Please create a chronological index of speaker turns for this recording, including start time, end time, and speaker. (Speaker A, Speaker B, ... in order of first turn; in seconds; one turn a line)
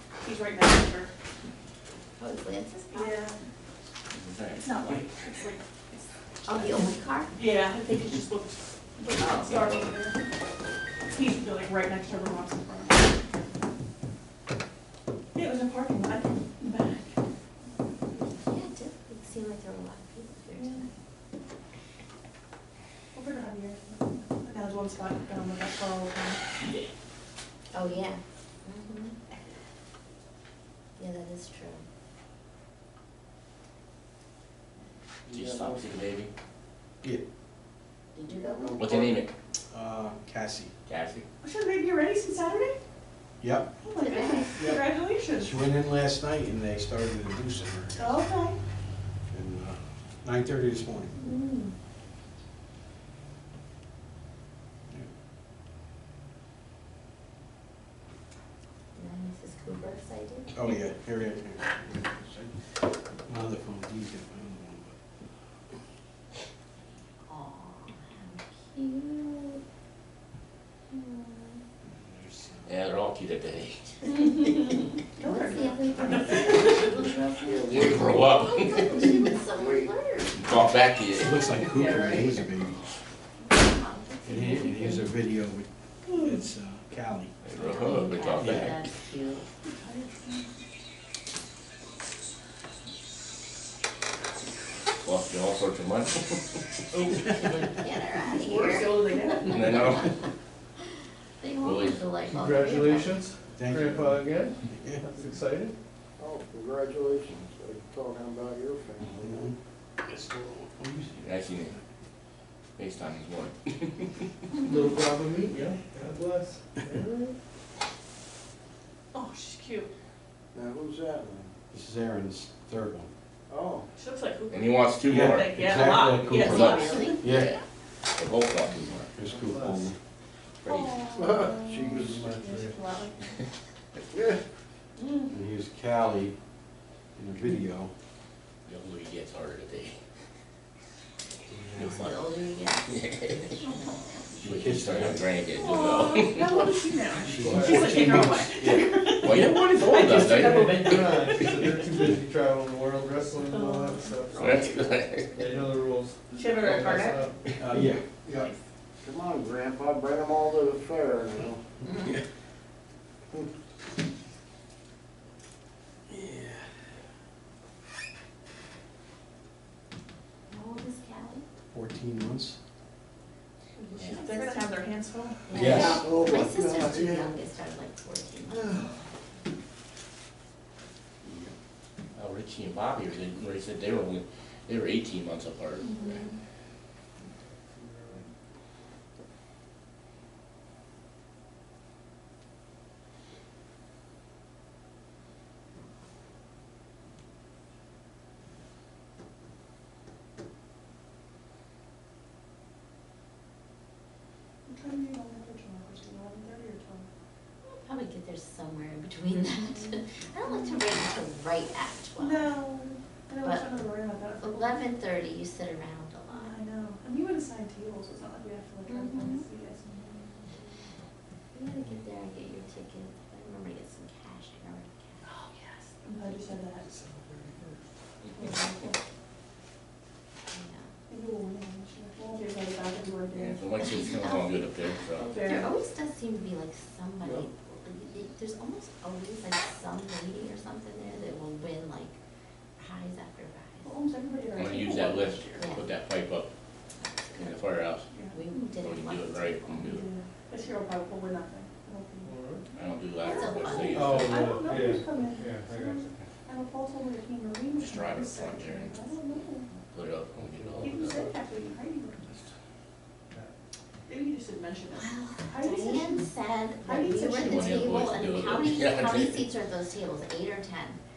Speaker A: 0.2-1.1
Speaker B: 2.2-3.3
Speaker A: 2.9-3.4
Speaker C: 4.1-5.1
Speaker A: 4.6-6.7
Speaker B: 6.5-7.3
Speaker A: 7.3-10.2
Speaker B: 9.2-9.9
Speaker A: 11.1-13.1
Speaker A: 15.3-17.1
Speaker B: 18.2-20.9
Speaker A: 20.6-20.9
Speaker A: 23.1-26.5
Speaker B: 27.7-29.1
Speaker B: 31.0-31.8
Speaker D: 35.2-35.9
Speaker C: 35.3-36.3
Speaker B: 38.1-38.8
Speaker D: 38.2-39.2
Speaker C: 38.8-39.3
Speaker E: 39.7-40.7
Speaker C: 40.9-41.2
Speaker A: 41.4-42.8
Speaker E: 43.4-43.7
Speaker A: 43.8-45.7
Speaker B: 44.0-44.5
Speaker E: 44.6-48.2
Speaker A: 47.9-48.5
Speaker E: 49.3-51.2
Speaker B: 51.2-51.7
Speaker B: 58.9-60.5
Speaker E: 60.5-62.7
Speaker E: 63.2-65.0
Speaker B: 67.3-69.6
Speaker B: 70.9-71.5
Speaker E: 72.0-72.7
Speaker C: 72.7-74.0
Speaker B: 74.1-74.7
Speaker A: 75.2-76.8
Speaker B: 75.2-80.4
Speaker D: 77.4-78.1
Speaker C: 77.5-79.1
Speaker C: 80.4-82.4
Speaker E: 80.5-82.8
Speaker B: 83.4-85.0
Speaker E: 84.2-87.3
Speaker C: 87.4-88.8
Speaker B: 87.5-89.5
Speaker E: 88.4-88.7
Speaker A: 89.7-90.5
Speaker C: 95.0-96.6
Speaker B: 97.4-99.0
Speaker A: 98.3-99.9
Speaker C: 99.4-100.2
Speaker B: 101.4-103.1
Speaker C: 101.6-102.1
Speaker F: 102.3-105.7
Speaker E: 103.5-105.0
Speaker D: 106.2-109.5
Speaker E: 109.2-111.8
Speaker C: 111.2-111.7
Speaker C: 112.8-114.3
Speaker F: 114.6-117.3
Speaker A: 119.1-119.9
Speaker D: 120.5-121.5
Speaker E: 121.7-123.1
Speaker D: 123.5-123.9
Speaker A: 124.0-127.2
Speaker C: 124.5-125.8
Speaker E: 125.0-127.5
Speaker B: 126.3-127.2
Speaker C: 126.4-127.6
Speaker C: 128.2-129.1
Speaker E: 129.1-129.9
Speaker F: 129.3-129.9
Speaker C: 130.6-131.0
Speaker A: 130.7-133.3
Speaker D: 131.1-132.3
Speaker F: 132.2-132.8
Speaker D: 134.1-134.4
Speaker E: 135.3-136.3
Speaker E: 137.2-137.9
Speaker C: 138.7-140.0
Speaker E: 141.5-142.2
Speaker C: 141.8-142.2
Speaker B: 141.8-143.0
Speaker C: 142.9-143.6
Speaker A: 143.6-144.0
Speaker C: 144.4-146.8
Speaker E: 144.4-145.3
Speaker A: 145.5-151.5
Speaker E: 147.2-149.1
Speaker F: 147.2-148.2
Speaker C: 147.5-151.7
Speaker F: 150.3-154.6
Speaker A: 153.4-154.6
Speaker C: 154.3-155.5
Speaker F: 155.3-157.4
Speaker A: 156.3-157.2
Speaker E: 157.6-158.5
Speaker D: 159.0-161.6
Speaker B: 170.5-171.4
Speaker E: 171.7-172.6
Speaker A: 173.8-175.9
Speaker C: 174.0-174.3
Speaker B: 175.5-178.8
Speaker E: 175.5-176.1
Speaker D: 175.9-177.4
Speaker D: 178.5-178.8
Speaker E: 181.2-181.5
Speaker C: 182.2-186.2
Speaker A: 185.8-186.3
Speaker F: 187.7-188.2
Speaker A: 204.7-207.1
Speaker B: 207.6-212.5
Speaker A: 209.9-210.8
Speaker A: 212.2-214.9
Speaker B: 213.4-213.7
Speaker B: 214.4-216.5
Speaker A: 216.3-220.4
Speaker B: 218.9-219.5
Speaker B: 221.5-225.2
Speaker A: 225.2-226.9
Speaker F: 226.9-227.8
Speaker A: 228.4-228.9
Speaker B: 228.4-228.7
Speaker B: 230.5-230.9
Speaker A: 231.1-234.0
Speaker C: 233.3-235.4
Speaker B: 233.9-234.7
Speaker A: 235.2-235.7
Speaker B: 235.3-242.2
Speaker B: 242.8-243.9
Speaker A: 243.8-245.8
Speaker C: 244.5-246.5
Speaker B: 245.6-245.8
Speaker B: 247.1-247.6
Speaker C: 247.4-248.1
Speaker A: 248.1-248.4
Speaker B: 248.3-249.9
Speaker C: 248.8-250.1
Speaker A: 249.8-252.3
Speaker F: 252.2-252.7
Speaker C: 252.7-254.4
Speaker A: 253.2-259.7
Speaker B: 253.3-254.2
Speaker F: 253.9-256.2
Speaker C: 257.7-261.3
Speaker A: 260.8-262.4
Speaker A: 264.1-267.9
Speaker B: 264.9-271.0
Speaker C: 267.4-269.4